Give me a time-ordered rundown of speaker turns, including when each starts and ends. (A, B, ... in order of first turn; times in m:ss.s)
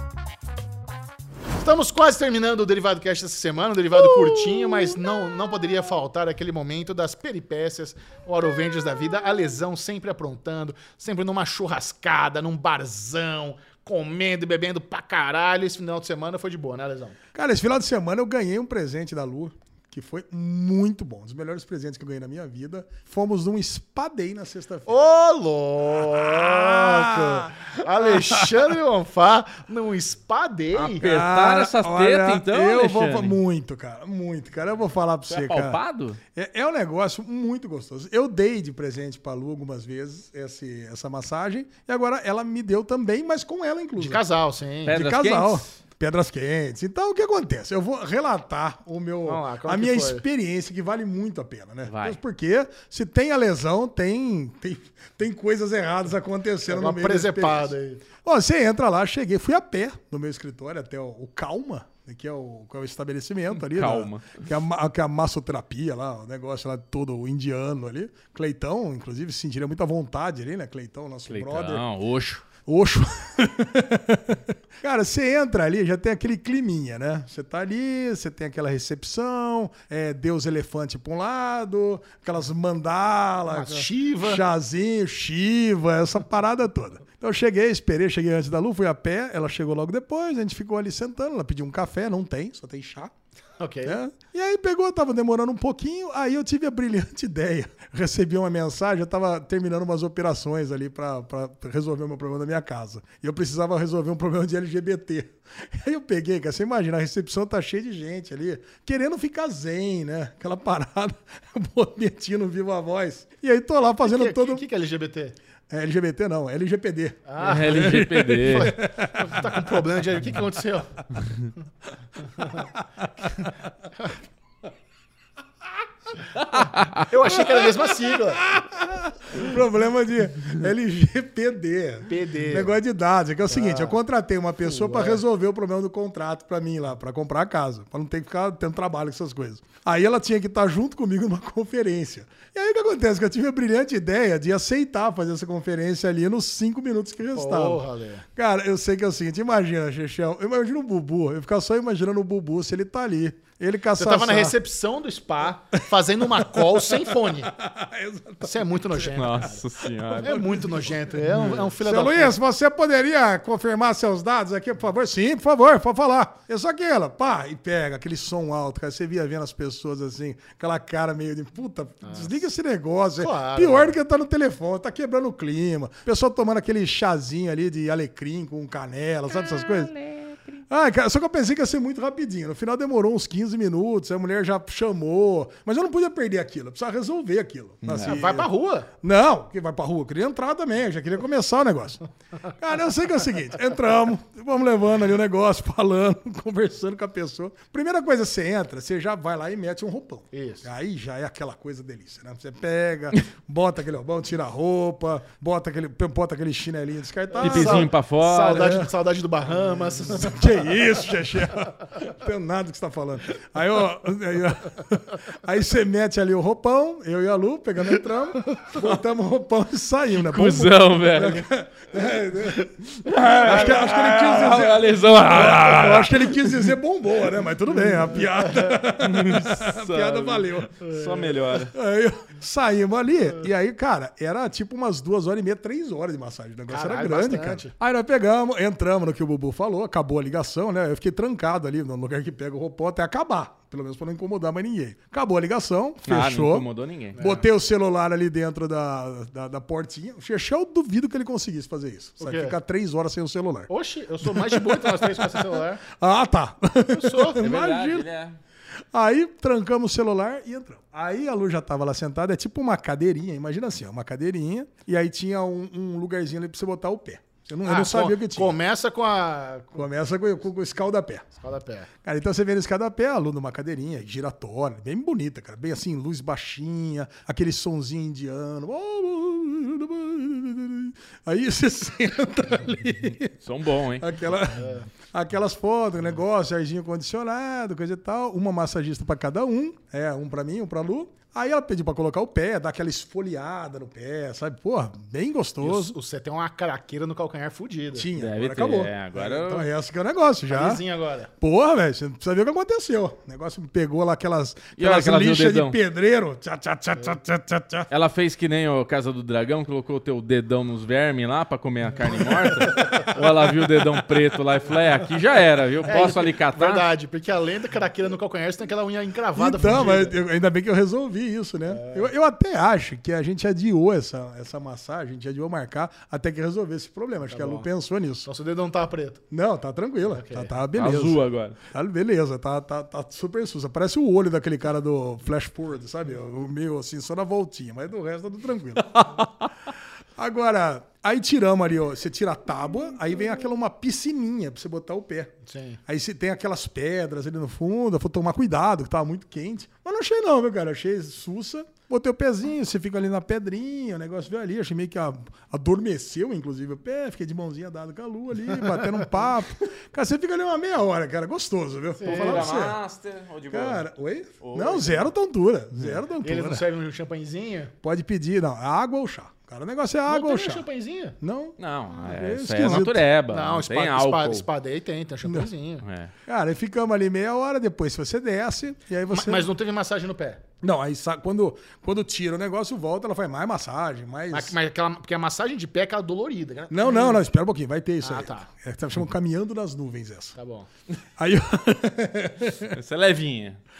0:01.6-0:17.2 A
0:04.0-0:05.0 B
0:17.3-0:25.0 B
0:24.9-0:31.1 A
0:26.0-0:28.5 B
0:30.7-0:33.4 C
0:31.0-0:35.8 B
0:35.3-0:36.2 C
0:36.3-0:44.2 B
0:44.0-0:45.0 A
0:44.9-0:45.8 C
0:44.9-1:11.8 B
0:49.3-0:50.2 A
0:51.9-0:52.2 C
0:56.7-0:58.0 A
1:03.6-1:04.4 C
1:11.3-1:12.4 C
1:12.7-1:33.1 B
1:23.5-1:24.4 A
1:33.6-1:34.0 A
1:33.8-1:54.7 B
1:54.0-1:55.4 A
1:55.7-1:59.8 B
1:57.3-2:01.0 A
1:57.4-1:58.8 C
2:02.4-2:02.7 A
2:02.6-2:03.3 B
2:03.4-2:04.2 A
2:06.5-2:07.0 C
2:07.0-2:08.5 A
2:07.2-2:27.8 B
2:12.1-2:12.8 A
2:13.5-2:14.0 A
2:14.6-2:15.2 A
2:27.3-2:28.2 A
2:28.4-2:34.6 B
2:34.0-2:37.5 A
2:36.2-2:59.9 B
2:38.4-2:39.6 A
2:39.1-2:41.6 C
2:40.2-2:42.4 A
2:52.0-2:52.4 A
2:53.2-2:54.0 A
2:59.4-3:00.4 C
3:00.7-3:08.5 B
3:07.8-3:08.2 C
3:08.0-3:08.9 A
3:09.0-3:27.9 B
3:20.3-3:20.7 A
3:27.4-3:30.8 A
3:27.4-3:28.8 C
3:28.5-3:28.9 B
3:30.2-3:50.8 B
3:40.2-3:41.5 C
3:43.0-3:46.8 C
3:49.0-3:51.7 C
3:50.8-3:51.3 A
3:51.6-4:06.7 B
3:56.7-3:57.7 A
4:06.0-4:07.2 C
4:07.2-4:07.4 A
4:07.2-4:13.7 B
4:12.2-4:12.6 A
4:13.7-4:15.8 A
4:14.2-4:18.1 B
4:16.9-4:17.4 A
4:17.4-4:18.4 C
4:18.9-4:28.6 B
4:27.6-4:29.8 A
4:29.8-4:31.3 B
4:31.4-4:31.9 A
4:32.0-4:43.4 B
4:43.2-4:44.2 C
4:44.0-4:56.0 B
4:44.6-4:44.9 A
4:55.6-4:58.1 A
4:58.0-5:00.8 B
4:58.2-4:59.7 C
5:00.5-5:01.3 A
5:01.4-5:07.9 B
5:04.8-5:05.8 C
5:07.9-5:16.9 C
5:12.8-5:13.1 A
5:15.8-5:20.2 A
5:19.4-5:28.3 B
5:21.7-5:22.1 A
5:27.3-5:27.7 A
5:28.2-5:29.2 A
5:29.3-5:39.5 B
5:30.0-5:30.5 A
5:30.7-5:31.6 C
5:40.2-5:45.4 B
5:45.4-5:45.8 A
5:45.9-6:02.8 B
6:01.9-6:02.5 A
6:02.0-6:03.9 C
6:03.5-6:06.6 B
6:04.4-6:05.1 C
6:06.2-6:07.7 A
6:07.8-6:10.7 B
6:10.1-6:11.2 A
6:11.2-6:13.1 B
6:11.6-6:14.5 C
6:13.3-6:15.8 A
6:15.8-6:16.1 C
6:16.3-6:19.5 B
6:19.1-6:20.4 A
6:20.6-6:24.6 B
6:24.3-6:27.2 A
6:26.7-6:30.4 B
6:28.0-6:28.5 A
6:30.4-6:30.7 A
6:31.2-6:32.8 B
6:32.6-6:33.6 C